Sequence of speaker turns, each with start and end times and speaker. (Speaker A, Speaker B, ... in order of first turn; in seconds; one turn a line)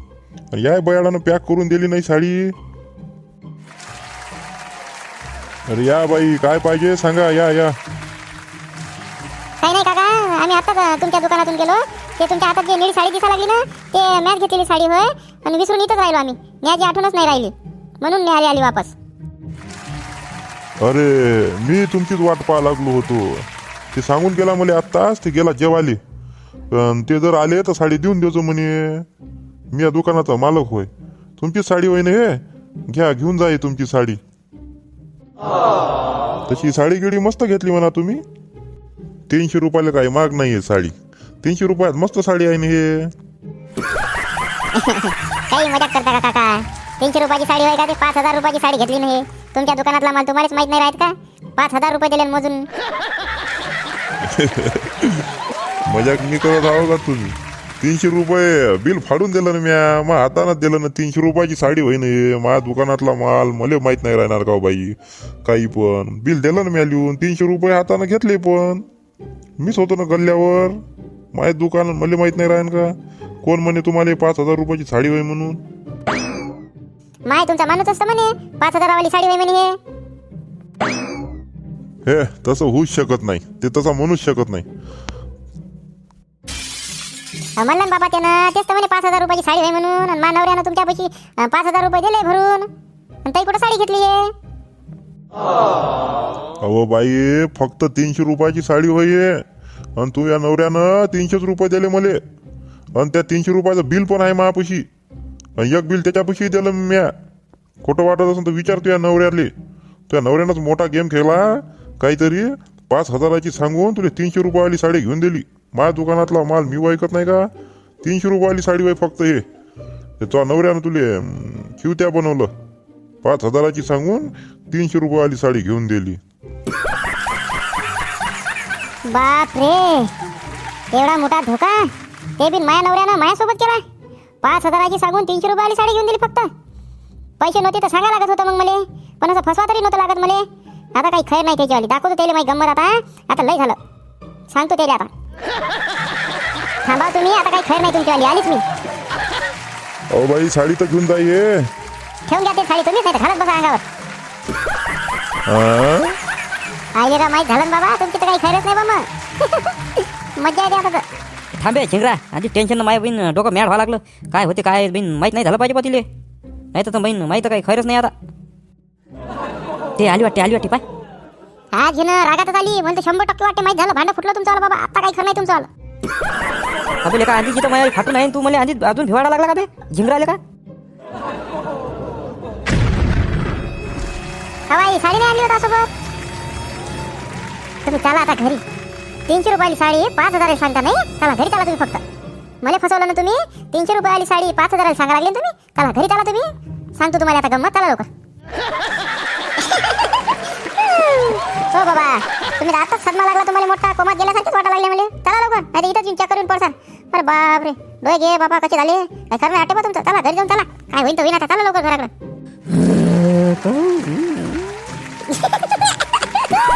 Speaker A: 0.5-2.5
Speaker A: 5.7-7.7
Speaker B: 9.6-18.9
Speaker A: 20.8-26.0
Speaker A: 26.7-29.1
Speaker A: 29.7-34.2
Speaker A: 36.5-38.2
Speaker A: 39.3-43.1
Speaker B: 44.7-52.6
Speaker A: 54.3-55.2
Speaker A: 55.9-68.8
Speaker A: 69.6-70.8
Speaker A: 71.3-75.6
Speaker B: 77.3-79.8
Speaker A: 82.0-84.7
Speaker B: 87.6-92.7
Speaker B: 93.2-94.3
Speaker A: 96.6-99.4
Speaker A: 100.0-102.2
Speaker A: 102.9-104.9
Speaker A: 105.6-107.1
Speaker A: 107.8-109.5
Speaker A: 110.1-117.5
Speaker A: 118.0-119.4
Speaker A: 120.2-122.5
Speaker A: 123.2-126.2
Speaker B: 129.1-130.1
Speaker B: 130.9-133.8
Speaker B: 134.4-136.5
Speaker B: 137.4-140.4
Speaker B: 140.9-143.8
Speaker B: 144.5-145.1
Speaker B: 146.8-148.6
Speaker A: 150.1-151.7
Speaker B: 152.3-153.8
Speaker A: 155.5-156.2
Speaker B: 156.9-159.7
Speaker B: 160.4-161.0
Speaker C: 161.5-166.0
Speaker C: 166.7-168.1
Speaker C: 170.0-170.8
Speaker B: 171.7-175.7
Speaker C: 177.0-180.4
Speaker B: 184.7-185.9
Speaker B: 187.8-188.6
Speaker B: 189.3-192.0
Speaker B: 192.6-198.1
Speaker B: 199.7-200.1
Speaker B: 200.9-212.1
Speaker C: 212.7-214.7
Speaker B: 215.3-215.7